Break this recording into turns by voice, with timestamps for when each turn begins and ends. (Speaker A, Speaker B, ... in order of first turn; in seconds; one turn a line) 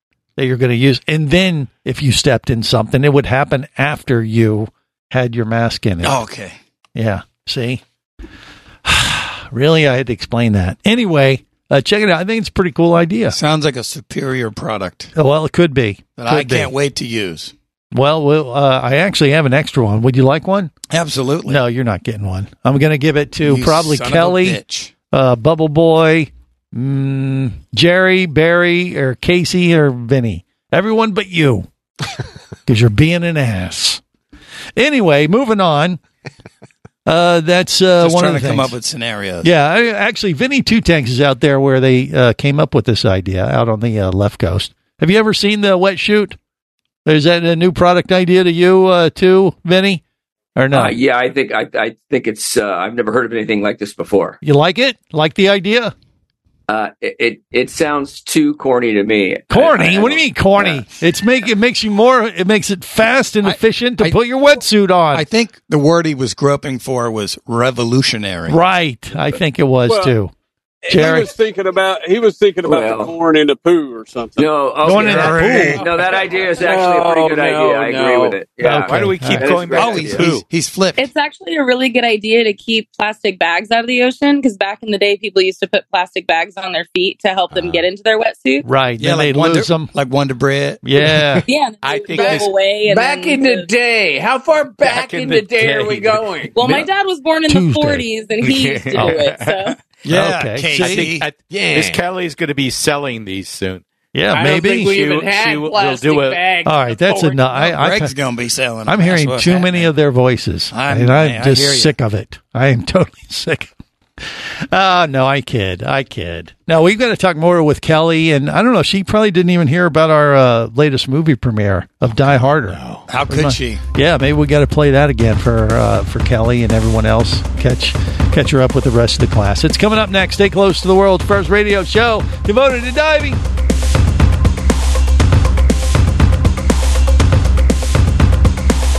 Speaker A: 0.4-6.2
Speaker B: 6.0-6.6
Speaker A: 7.0-7.8
Speaker A: 8.8-13.4
Speaker B: 13.3-15.1
Speaker A: 15.2-16.7
Speaker B: 16.2-17.5
Speaker A: 17.9-20.7
Speaker B: 20.9-21.6
Speaker A: 21.5-24.6
Speaker B: 23.4-24.9
Speaker A: 25.1-31.7
Speaker A: 32.7-34.0
Speaker A: 34.8-36.0
Speaker A: 37.0-38.8
Speaker B: 38.0-39.5
Speaker A: 39.4-46.4
Speaker A: 47.0-50.0
Speaker A: 50.6-51.0
Speaker C: 50.7-54.4
Speaker A: 54.4-55.9
Speaker C: 56.7-60.8
Speaker A: 59.5-65.2
Speaker B: 63.5-64.2
Speaker B: 65.1-68.6
Speaker A: 68.5-70.3
Speaker D: 69.9-70.1
Speaker D: 70.8-74.5
Speaker A: 70.9-71.3
Speaker C: 72.6-73.1
Speaker C: 74.4-80.3
Speaker A: 74.8-75.8
Speaker B: 75.0-75.8
Speaker D: 75.7-77.6
Speaker E: 76.6-78.4
Speaker A: 78.6-79.5
Speaker F: 78.9-80.5
Speaker B: 79.8-81.0
Speaker G: 81.0-88.7
Speaker A: 88.6-89.9
Speaker B: 89.0-90.8
Speaker A: 90.8-91.5
Speaker G: 91.5-93.7
Speaker F: 91.8-92.5
Speaker E: 92.2-96.6
Speaker F: 94.8-96.7
Speaker G: 96.5-99.8
Speaker A: 97.5-98.1
Speaker F: 98.4-99.7
Speaker B: 100.0-101.3
Speaker A: 100.1-101.1
Speaker F: 100.8-103.8
Speaker A: 104.1-104.9
Speaker E: 104.3-107.4
Speaker F: 104.4-106.5
Speaker A: 106.7-108.1
Speaker B: 107.5-109.9
Speaker A: 108.9-113.7
Speaker B: 110.7-111.9
Speaker A: 114.7-133.4
Speaker B: 123.1-123.8